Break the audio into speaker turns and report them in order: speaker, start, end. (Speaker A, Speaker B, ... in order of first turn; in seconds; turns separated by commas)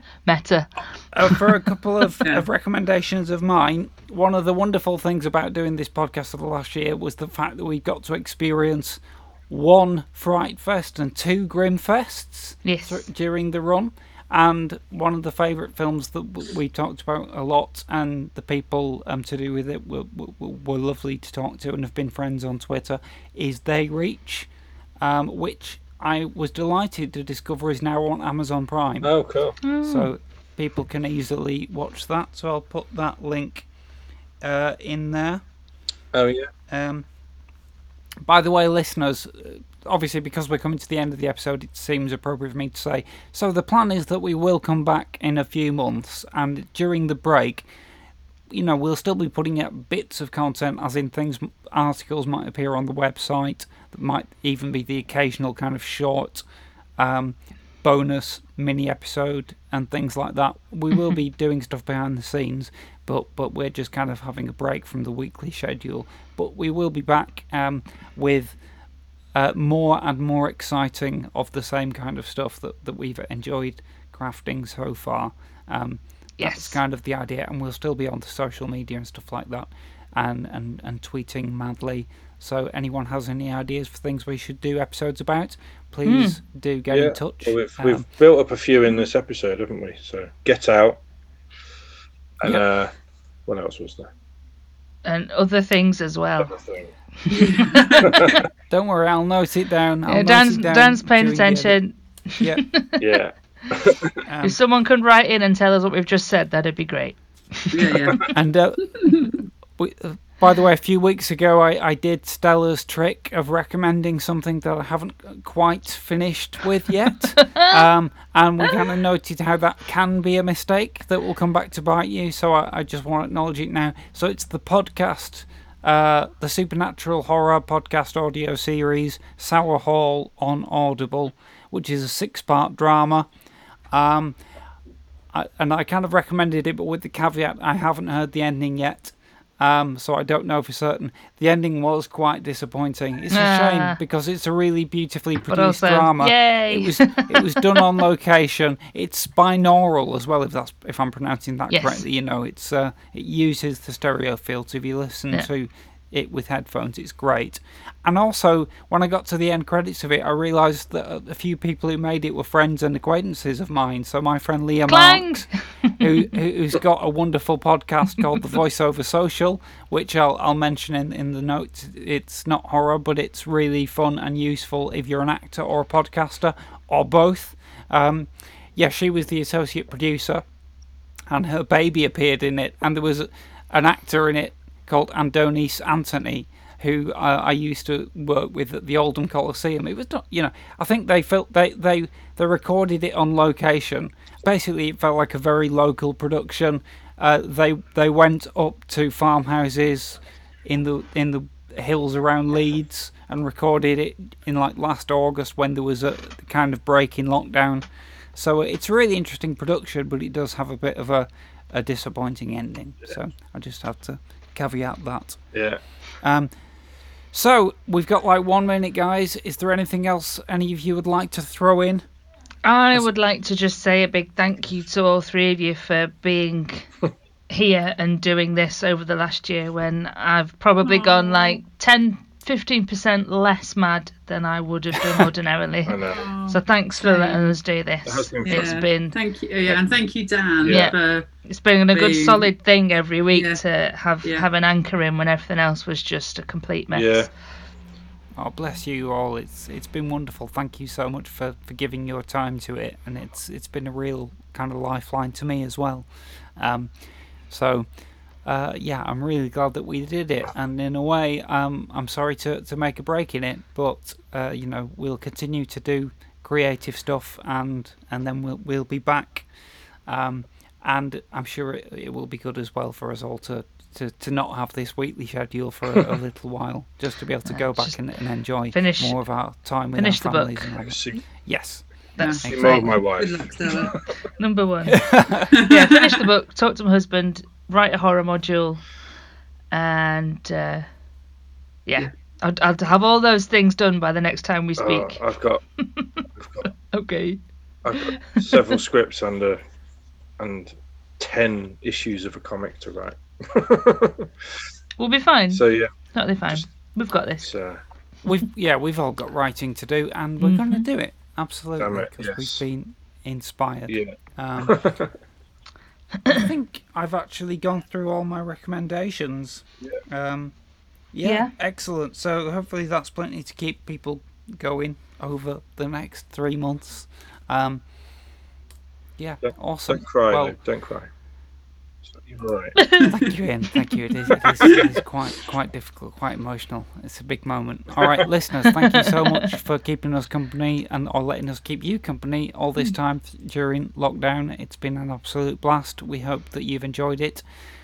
Speaker A: 0.2-0.8, Speaker B: 1.1-24.5, Speaker A: 12.6-13.0, Speaker B: 25.0-29.1, Speaker C: 29.0-29.6, Speaker A: 29.6-30.1, Speaker B: 29.8-33.7, Speaker B: 34.4-35.4, Speaker C: 36.1-36.5, Speaker B: 36.7-37.0, Speaker B: 38.2-47.7, Speaker B: 48.5-56.4, Speaker B: 57.0-68.6, Speaker B: 69.3-88.0, Speaker A: 76.4-76.8, Speaker A: 86.0-86.4, Speaker C: 86.9-91.0, Speaker C: 92.4-92.9, Speaker C: 93.5-94.1, Speaker A: 95.0-96.5, Speaker C: 96.4-96.9, Speaker A: 97.2-98.4, Speaker D: 97.3-98.1, Speaker C: 98.0-98.4, Speaker B: 98.7-101.8, Speaker A: 100.0-103.0, Speaker B: 102.4-102.6, Speaker C: 103.0-104.2, Speaker B: 104.2-104.6, Speaker A: 104.4-108.3, Speaker D: 107.7-108.3, Speaker B: 108.3-133.3, Speaker D: 109.0-109.3, Speaker B: 133.9-134.4, Speaker B: 135.3-180.4, Speaker A: 143.3-144.0, Speaker A: 145.5-147.6, Speaker A: 151.7-152.0, Speaker A: 164.9-166.1, Speaker B: 181.3-215.5, Speaker C: 215.5-215.8, Speaker B: 216.2-216.8, Speaker B: 217.3-222.0, Speaker A: 222.6-226.9, Speaker A: 227.5-239.2, Speaker D: 230.8-231.6, Speaker C: 235.8-236.2, Speaker D: 236.1-237.5, Speaker C: 238.0-238.8, Speaker D: 238.4-242.5, Speaker C: 240.6-240.9, Speaker A: 240.7-247.3, Speaker D: 243.3-243.6, Speaker D: 244.2-244.5, Speaker C: 246.9-247.3, Speaker B: 248.3-257.9, Speaker B: 258.4-269.5, Speaker B: 270.1-281.8, Speaker A: 277.5-278.1, Speaker A: 278.7-279.3, Speaker A: 279.9-280.7, Speaker C: 280.8-281.2, Speaker A: 282.2-283.0, Speaker B: 282.4-283.0, Speaker C: 282.4-284.1, Speaker D: 283.0-283.9, Speaker A: 284.4-288.8, Speaker B: 284.9-285.6, Speaker D: 285.6-285.9, Speaker A: 289.7-290.9, Speaker A: 291.9-295.2, Speaker C: 294.8-295.6, Speaker A: 295.8-297.4, Speaker C: 296.3-296.7, Speaker C: 297.8-299.6, Speaker A: 297.9-298.8, Speaker C: 300.4-304.3, Speaker A: 305.0-307.5, Speaker C: 305.5-305.9, Speaker C: 307.4-307.8, Speaker B: 308.2-314.9, Speaker A: 310.4-310.9, Speaker C: 311.8-312.6, Speaker C: 313.9-315.1, Speaker B: 316.3-320.5, Speaker B: 321.1-327.9, Speaker A: 321.2-321.5, Speaker B: 329.2-330.6, Speaker C: 329.4-331.1, Speaker C: 332.1-332.8, Speaker B: 333.0-347.4, Speaker A: 339.1-339.4